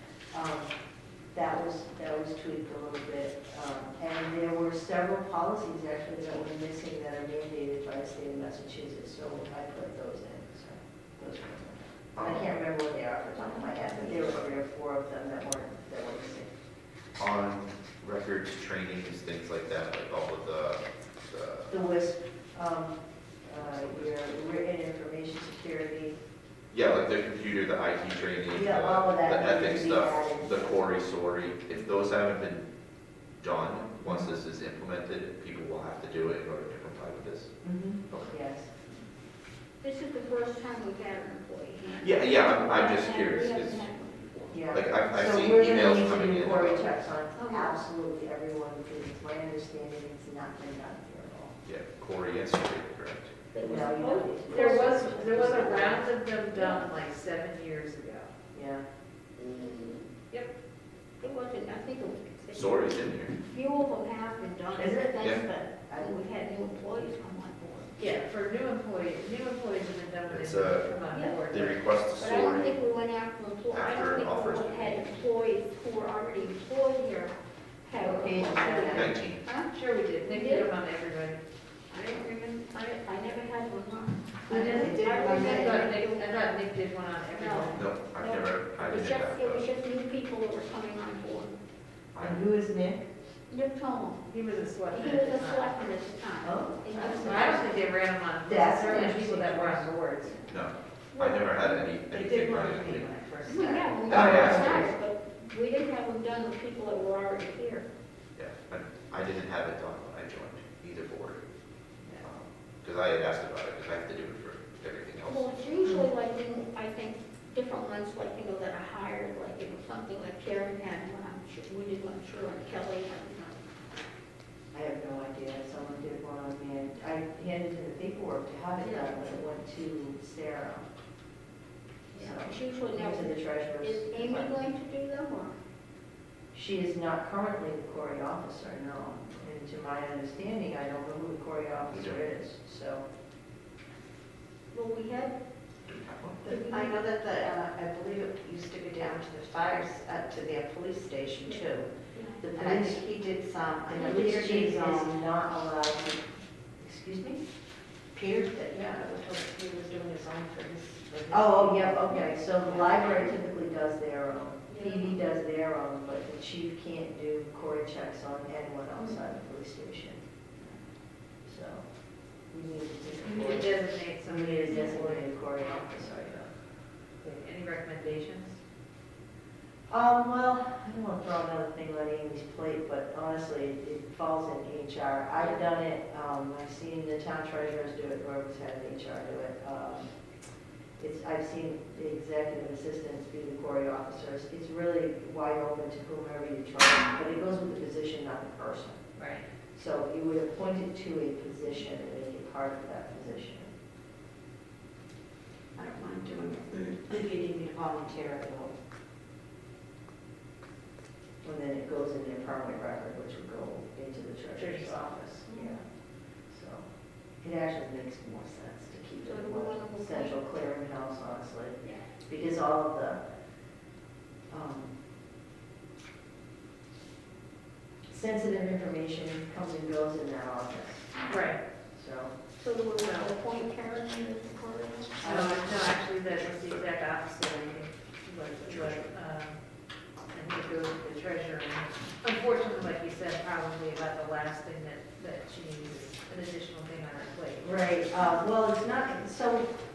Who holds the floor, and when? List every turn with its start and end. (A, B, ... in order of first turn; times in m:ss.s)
0:00.3-0:00.7 A
0:01.3-0:16.5 A
0:12.1-0:12.5 B
0:17.2-0:21.7 B
0:21.7-0:26.2 A
0:23.8-0:24.0 B
0:26.7-0:32.6 B
0:28.5-0:30.8 A
0:33.4-0:37.5 B
0:34.0-0:34.3 A
0:37.6-0:38.7 A
0:39.8-0:44.6 C
0:42.0-0:43.9 B
0:44.5-0:51.6 A
0:44.7-0:46.8 B
0:47.3-0:47.8 C
0:51.6-0:53.4 B
0:53.5-0:56.9 C
0:53.6-0:55.7 A
0:54.4-0:58.3 D
0:58.5-0:58.8 A
0:59.4-1:00.1 C
1:01.2-1:02.9 C
1:02.5-1:03.3 B
1:03.5-1:08.0 C
1:04.7-1:06.2 A
1:05.2-1:05.4 B
1:08.0-1:08.2 A
1:08.1-1:11.8 D
1:10.3-1:10.9 B
1:11.1-1:11.4 C
1:11.5-1:12.9 B
1:12.2-1:19.7 C
1:13.7-1:15.2 B
1:18.0-1:19.2 A
1:18.9-1:19.5 B
1:19.7-1:21.4 D
1:20.2-1:20.7 C
1:21.9-1:26.6 C
1:24.5-1:25.8 E
1:24.5-1:28.0 D
1:27.3-1:31.6 C
1:27.7-1:29.7 B
1:32.1-1:32.5 B
1:32.2-1:33.0 A
1:33.5-1:34.3 C
1:34.3-1:35.8 D
1:34.9-1:37.7 C
1:36.4-1:37.7 A
1:37.0-1:40.4 D
1:38.4-1:39.9 A
1:40.5-1:43.1 B
1:41.1-1:41.6 C
1:42.1-1:44.5 E
1:43.4-1:47.9 C
1:44.0-1:44.9 B
1:44.1-1:44.7 A
1:48.4-1:51.4 B
1:52.8-1:55.5 B
1:55.2-2:04.0 C
1:55.8-1:56.1 A
2:04.7-2:10.8 A
2:08.8-2:09.1 C
2:12.1-2:15.6 C
2:12.2-2:14.7 A
2:16.5-2:23.0 A
2:21.9-2:22.2 B
2:24.7-2:25.4 C
2:25.8-2:26.4 B
2:26.4-2:31.9 E
2:26.4-2:27.0 C
2:32.1-2:32.4 C
2:32.4-2:33.0 A
2:32.5-2:35.2 E
2:33.9-2:36.2 A
2:36.8-2:37.4 A
2:38.1-2:43.3 E
2:41.3-2:50.2 A
2:44.7-2:45.2 C
2:51.4-2:51.8 A
2:52.5-2:56.5 A
2:53.2-2:55.9 D
2:57.2-2:58.6 D
2:59.9-3:10.1 A
3:11.0-3:19.0 A
3:19.2-3:19.5 D
3:19.7-3:23.7 A
3:25.8-3:28.7 E
3:31.4-3:35.8 A
3:34.6-3:35.5 D
3:35.5-3:35.8 C
3:36.5-3:36.8 A
3:37.4-3:43.2 A
3:39.2-3:40.4 C
3:41.8-3:42.0 C
3:44.5-3:44.9 A
3:48.1-3:51.1 A
3:51.3-3:51.6 D
3:51.9-3:52.3 A
3:52.6-3:55.8 C
3:53.0-3:53.4 D
3:55.2-3:59.6 D
3:55.2-3:55.6 A
3:56.2-3:56.8 B
3:58.6-3:59.0 B
4:00.3-4:07.8 D
4:07.6-4:09.7 A